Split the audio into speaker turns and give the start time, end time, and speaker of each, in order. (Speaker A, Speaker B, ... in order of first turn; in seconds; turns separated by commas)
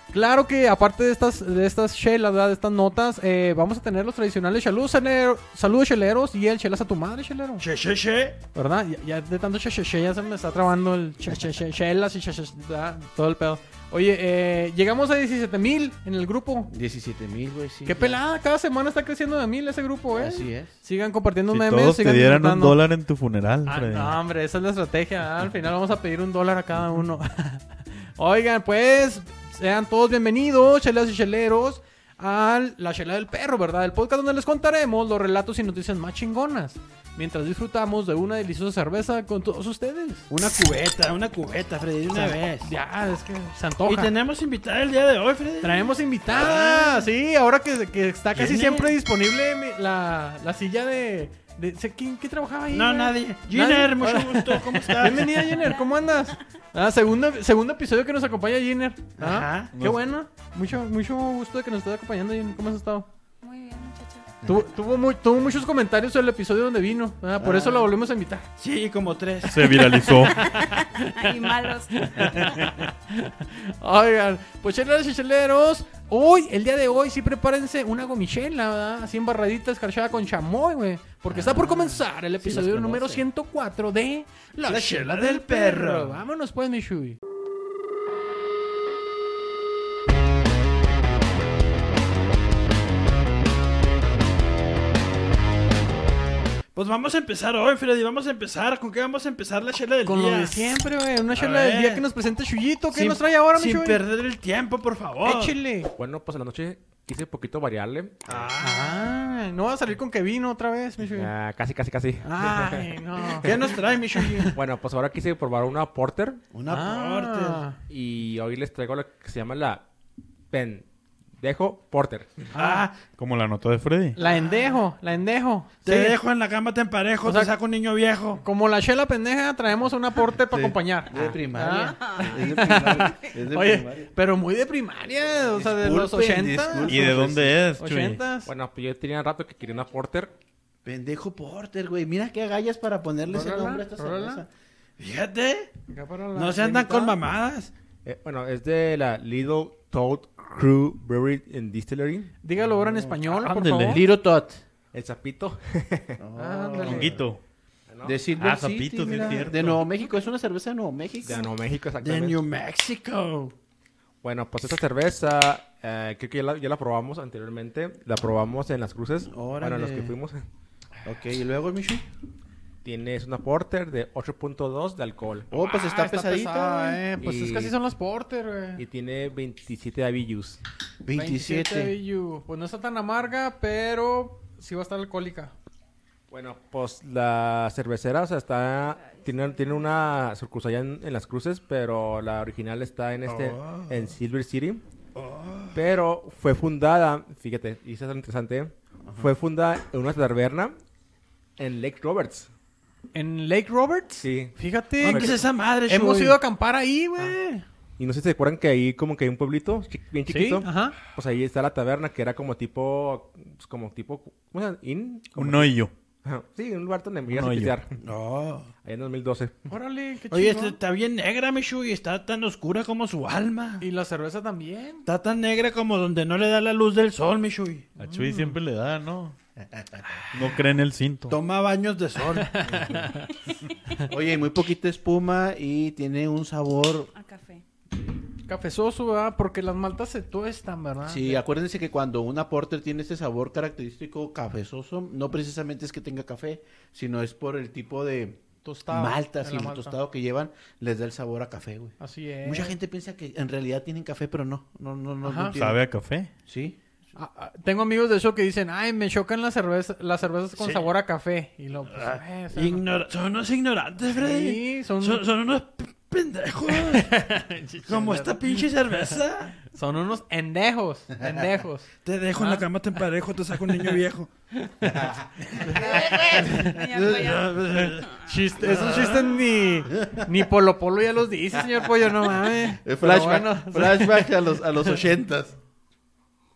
Speaker A: 0.1-7.6, Speaker B: 7.6-8.4, Speaker A: 8.5-16.7, Speaker C: 16.7-18.2, Speaker A: 17.8-22.8, Speaker C: 20.1-20.7, Speaker D: 21.5-24.2, Speaker A: 23.6-40.3, Speaker B: 40.3-42.7, Speaker A: 42.1-44.1, Speaker B: 43.9-47.1, Speaker A: 45.6-63.1, Speaker B: 48.3-48.9, Speaker B: 52.7-55.3, Speaker B: 59.2-59.7, Speaker D: 59.7-60.0, Speaker E: 63.4-64.3, Speaker A: 64.4-68.5, Speaker C: 67.4-67.8, Speaker B: 68.6-69.8, Speaker D: 69.5-70.3, Speaker A: 70.0-71.1, Speaker E: 70.2-72.2, Speaker A: 71.9-87.2, Speaker D: 72.3-72.7, Speaker C: 81.3-83.2, Speaker B: 84.6-86.2, Speaker B: 96.7-100.7, Speaker A: 100.0-104.0, Speaker B: 101.3-102.0, Speaker B: 102.9-105.5, Speaker A: 105.2-105.9, Speaker F: 106.0-108.5, Speaker B: 108.3-109.0, Speaker A: 108.6-111.3, Speaker F: 111.0-113.5, Speaker A: 112.2-113.6, Speaker B: 113.4-114.5, Speaker A: 114.2-114.5, Speaker F: 114.5-116.4, Speaker B: 116.5-117.6, Speaker A: 116.7-117.8, Speaker F: 117.9-119.8, Speaker F: 120.5-120.8, Speaker F: 121.4-122.5, Speaker A: 122.5-122.8, Speaker B: 122.5-123.0, Speaker D: 123.1-124.2, Speaker A: 124.2-126.2, Speaker B: 124.2-124.8, Speaker B: 125.8-128.4, Speaker A: 127.2-127.5, Speaker A: 128.4-137.1, Speaker C: 130.5-134.1, Speaker F: 131.1-131.4, Speaker C: 135.5-137.6, Speaker D: 136.8-138.2, Speaker A: 137.8-138.5, Speaker F: 138.4-140.3, Speaker C: 140.8-144.5, Speaker A: 143.3-144.4, Speaker B: 145.0-145.7, Speaker A: 145.9-147.2, Speaker B: 146.3-147.7, Speaker F: 148.0-152.3, Speaker A: 152.4-154.0, Speaker D: 153.3-154.0, Speaker C: 153.6-154.6, Speaker F: 154.9-156.2, Speaker C: 156.2-157.2, Speaker A: 156.3-157.2, Speaker B: 156.4-157.1, Speaker D: 156.8-157.4, Speaker F: 157.9-158.2, Speaker C: 158.0-161.4, Speaker D: 158.4-159.8, Speaker F: 161.2-162.4, Speaker B: 162.0-163.5, Speaker F: 164.2-170.5, Speaker C: 169.3-170.1, Speaker C: 171.0-172.1, Speaker F: 172.8-175.5, Speaker C: 175.5-177.0, Speaker A: 175.5-178.8, Speaker F: 177.2-177.7, Speaker F: 178.8-180.6, Speaker C: 181.0-181.9, Speaker A: 181.1-185.5, Speaker F: 186.3-194.8, Speaker E: 188.8-190.0, Speaker B: 193.3-194.1, Speaker B: 195.2-195.8, Speaker F: 195.7-200.7, Speaker F: 201.6-202.5, Speaker A: 203.1-205.3, Speaker F: 204.2-205.4, Speaker B: 205.0-206.4, Speaker A: 205.9-207.6, Speaker F: 208.0-215.7, Speaker A: 210.3-211.0, Speaker D: 215.3-215.9, Speaker F: 216.2-217.9, Speaker D: 217.3-217.8, Speaker B: 218.0-218.7, Speaker F: 218.8-219.6, Speaker A: 219.7-220.8, Speaker B: 220.3-223.8, Speaker A: 223.8-225.1, Speaker B: 225.1-227.9, Speaker D: 228.0-229.3, Speaker A: 228.0-228.6, Speaker D: 230.3-231.4, Speaker B: 231.3-232.8, Speaker A: 232.4-233.3, Speaker C: 234.0-237.1, Speaker E: 237.1-237.6, Speaker A: 238.4-241.4, Speaker C: 241.1-255.8, Speaker A: 248.6-250.0, Speaker A: 252.0-252.7, Speaker A: 255.2-255.6, Speaker D: 255.5-256.3, Speaker C: 256.4-256.8, Speaker A: 257.1-262.9, Speaker B: 260.6-260.9, Speaker B: 261.9-267.1, Speaker A: 264.2-265.2, Speaker A: 266.7-268.7, Speaker B: 267.9-269.6, Speaker A: 269.6-272.7, Speaker B: 272.0-274.3, Speaker A: 274.6-275.1, Speaker B: 275.6-279.4, Speaker E: 275.6-277.6, Speaker A: 276.4-276.7, Speaker A: 278.2-284.3, Speaker C: 282.8-285.5